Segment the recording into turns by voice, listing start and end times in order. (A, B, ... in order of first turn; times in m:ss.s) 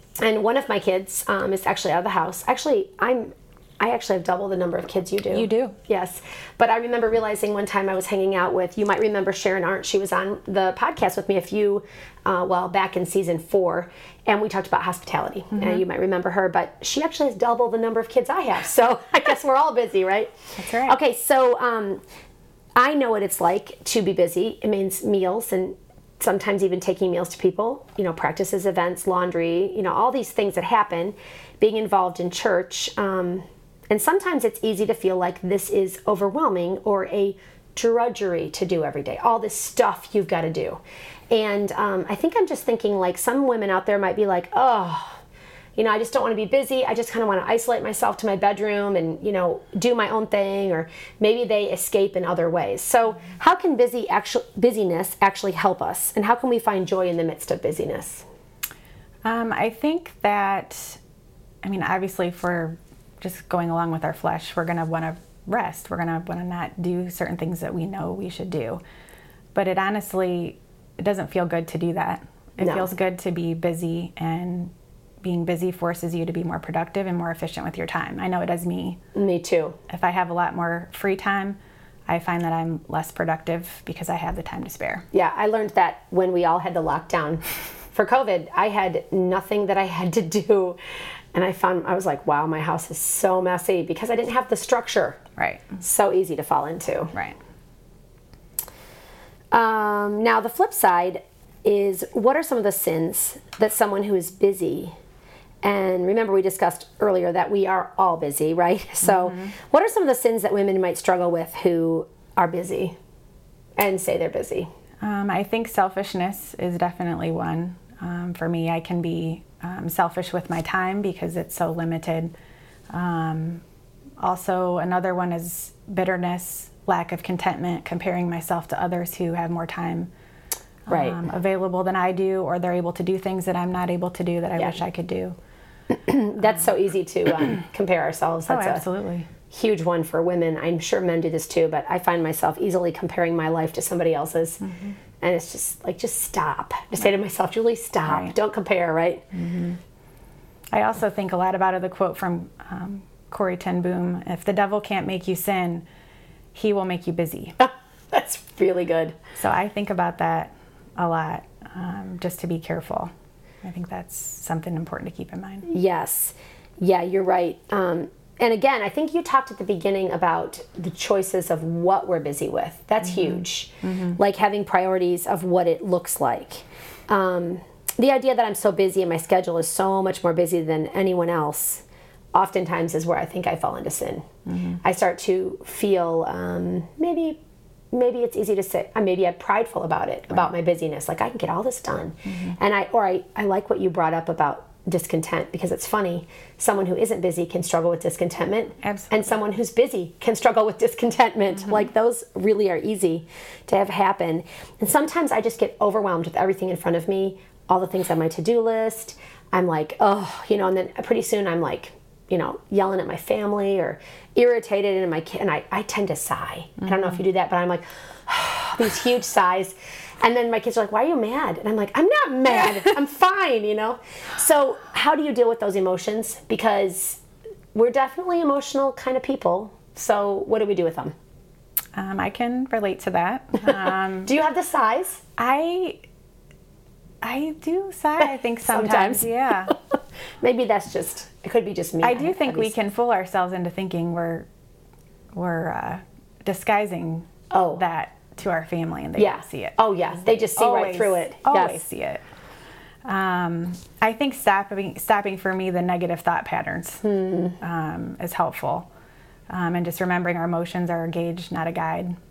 0:00.2-0:20.3 A
0:05.3-0:05.8 B
0:15.5-0:15.8 B
0:20.6-0:21.0 B
0:20.8-0:22.0 A
0:22.8-0:45.2 A
0:45.8-0:58.2 A
0:59.2-1:01.0 B
1:01.6-1:08.8 B
1:09.5-1:19.0 B
1:12.6-1:12.9 A
1:19.1-1:19.8 A
1:19.9-1:25.1 B
1:25.1-1:30.8 A
1:31.3-1:35.2 A
1:35.4-1:35.8 B
1:35.8-1:37.1 A
1:39.5-1:45.0 A
1:45.6-1:53.0 A
1:49.0-1:49.5 B
1:53.8-1:54.7 A
1:55.0-2:02.3 B
2:02.9-2:03.6 B
2:04.2-2:10.1 B
2:10.9-2:15.4 B
2:10.9-2:11.2 A
2:15.9-2:18.8 A
2:18.5-2:19.3 B
2:19.5-2:24.6 A
2:24.6-2:25.0 B
2:25.2-2:29.3 A
2:28.1-2:28.4 B
2:29.3-2:29.8 B
2:30.7-2:35.8 B
2:36.5-2:37.6 B
2:37.6-2:39.2 A
2:39.4-2:43.1 B
2:43.6-2:45.7 B
2:45.7-3:01.8 A
2:53.0-2:54.2 B
3:02.3-3:07.4 A
3:04.5-3:04.8 B
3:07.9-3:47.2 A
3:12.3-3:12.6 B
3:18.8-3:19.4 B
3:21.6-3:21.9 B
3:36.8-3:37.2 B
3:47.7-3:51.2 A
3:51.9-3:54.3 B
3:54.2-3:55.2 A
3:55.4-3:56.0 B
3:57.2-3:59.7 B
3:58.7-3:59.8 A
4:00.4-4:02.7 A
4:02.0-4:04.5 B
4:05.3-4:09.8 B
4:07.5-4:07.8 A
4:09.2-4:11.8 A
4:10.4-4:12.2 B
4:13.0-4:17.0 B
4:17.0-4:17.6 A
4:17.6-4:18.9 B
4:19.5-4:22.2 B